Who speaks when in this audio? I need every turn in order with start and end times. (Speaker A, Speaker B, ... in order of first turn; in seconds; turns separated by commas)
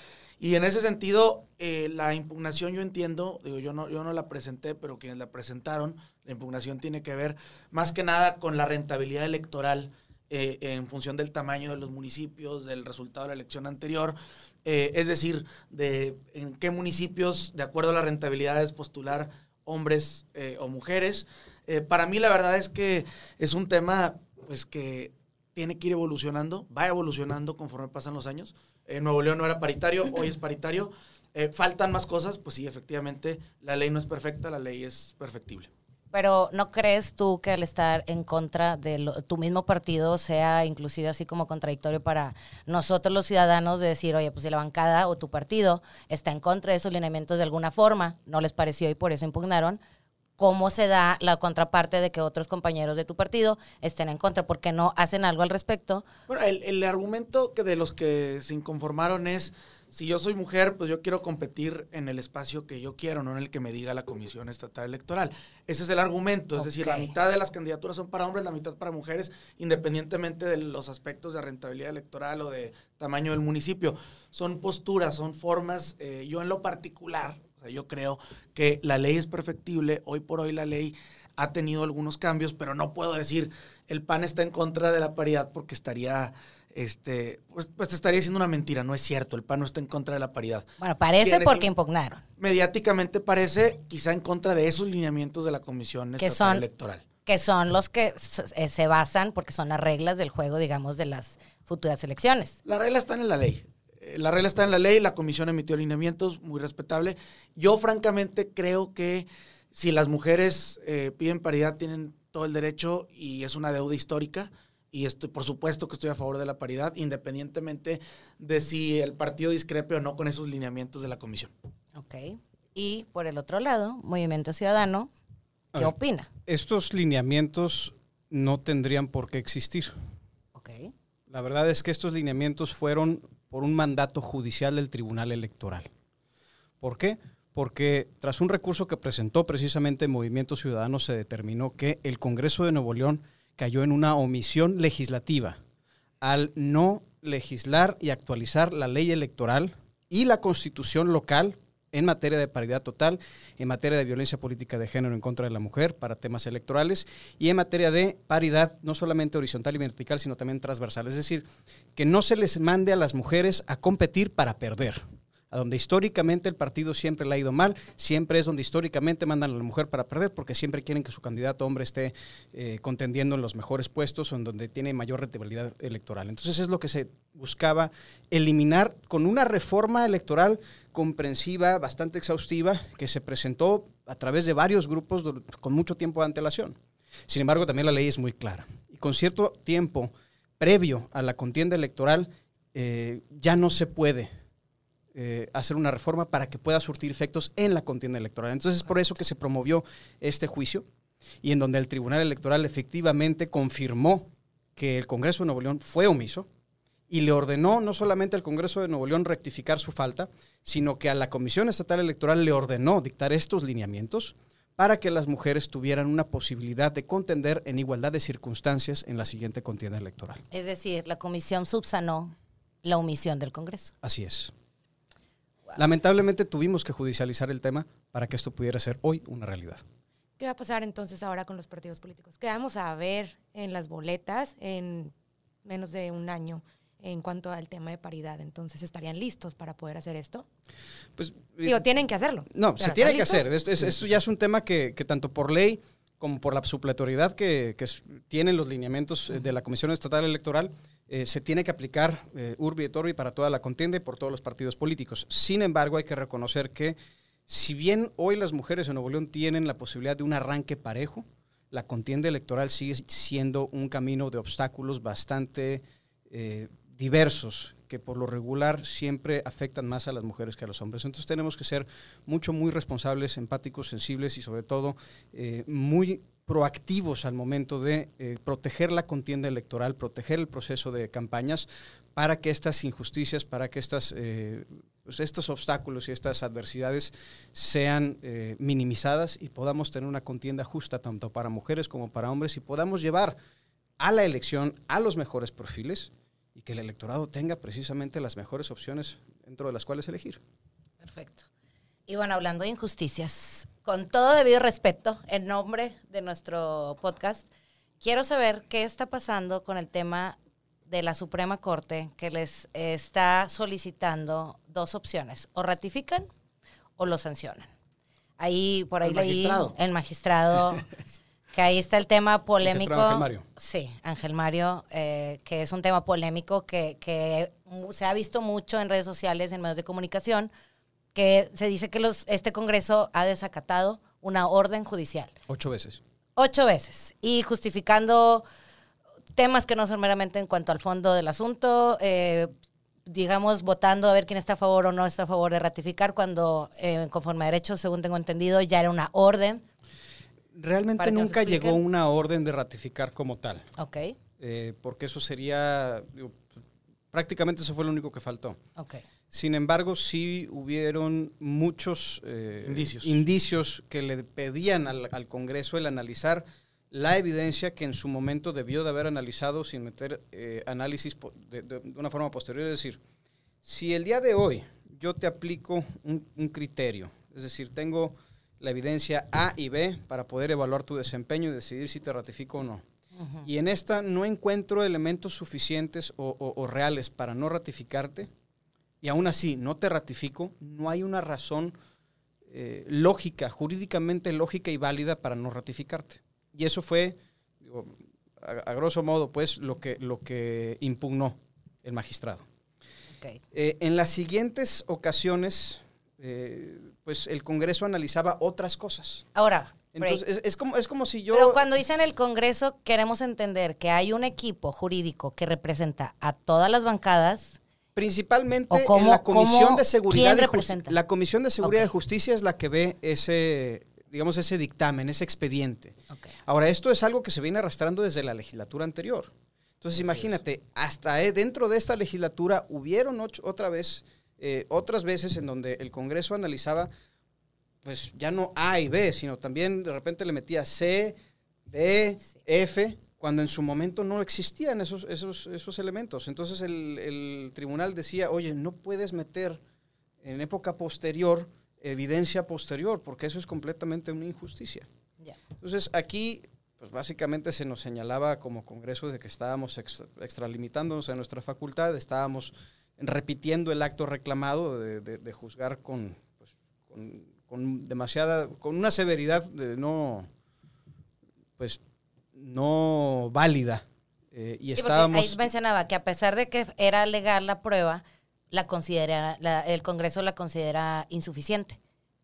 Speaker A: 0.4-35.7, Speaker B: 36.1-49.8, Speaker B: 50.4-56.1, Speaker A: 56.3-90.7, Speaker B: 66.6-67.1, Speaker B: 90.8-92.2, Speaker A: 91.2-91.7, Speaker A: 92.4-97.0, Speaker B: 96.2-96.7, Speaker B: 97.3-102.6, Speaker A: 102.7-121.5, Speaker B: 122.0-125.1, Speaker B: 125.8-126.3, Speaker C: 126.5-130.0, Speaker B: 130.6-130.9, Speaker C: 131.3-135.9, Speaker C: 136.8-145.6, Speaker C: 146.2-186.8, Speaker C: 187.3-194.3, Speaker C: 195.1-200.9, Speaker C: 201.4-206.5, Speaker C: 207.1-220.4, Speaker B: 220.5-223.9, Speaker C: 224.0-224.5, Speaker C: 225.8-229.8, Speaker D: 230.4-235.1, Speaker D: 235.7-240.5, Speaker C: 241.2-241.8, Speaker D: 241.7-243.5, Speaker C: 242.5-293.4, Speaker C: 294.0-300.4, Speaker B: 301.0-301.5, Speaker B: 302.1-307.5, Speaker B: 308.0-310.4, Speaker B: 310.9-316.3, Speaker B: 317.0-317.7, Speaker B: 318.4-320.9, Speaker A: 319.0-319.7, Speaker B: 321.5-330.5, Speaker C: 322.6-323.4, Speaker B: 331.1-335.3, Speaker C: 335.5-336.0, Speaker B: 336.4-338.4, Speaker B: 339.4-342.5, Speaker B: 343.1-349.6, Speaker C: 350.5-353.7, Speaker B: 351.0-351.8, Speaker B: 353.8-354.2, Speaker C: 354.4-356.5, Speaker C: 357.1-358.6, Speaker B: 358.8-359.0, Speaker C: 359.3-373.0, Speaker A: 362.6-363.2, Speaker C: 373.6-382.8, Speaker B: 383.2-383.5, Speaker C: 383.4-388.3, Speaker C: 389.0-391.8, Speaker C: 392.5-402.4, Speaker C: 403.5-409.2, Speaker B: 409.4-410.2, Speaker C: 409.9-411.6, Speaker B: 411.3-417.6, Speaker C: 417.9-436.9, Speaker B: 418.7-421.0, Speaker B: 421.6-421.9, Speaker B: 430.0-430.2, Speaker C: 437.8-449.6, Speaker C: 450.2-454.9, Speaker C: 455.6-470.3, Speaker C: 472.3-475.4, Speaker B: 474.8-481.8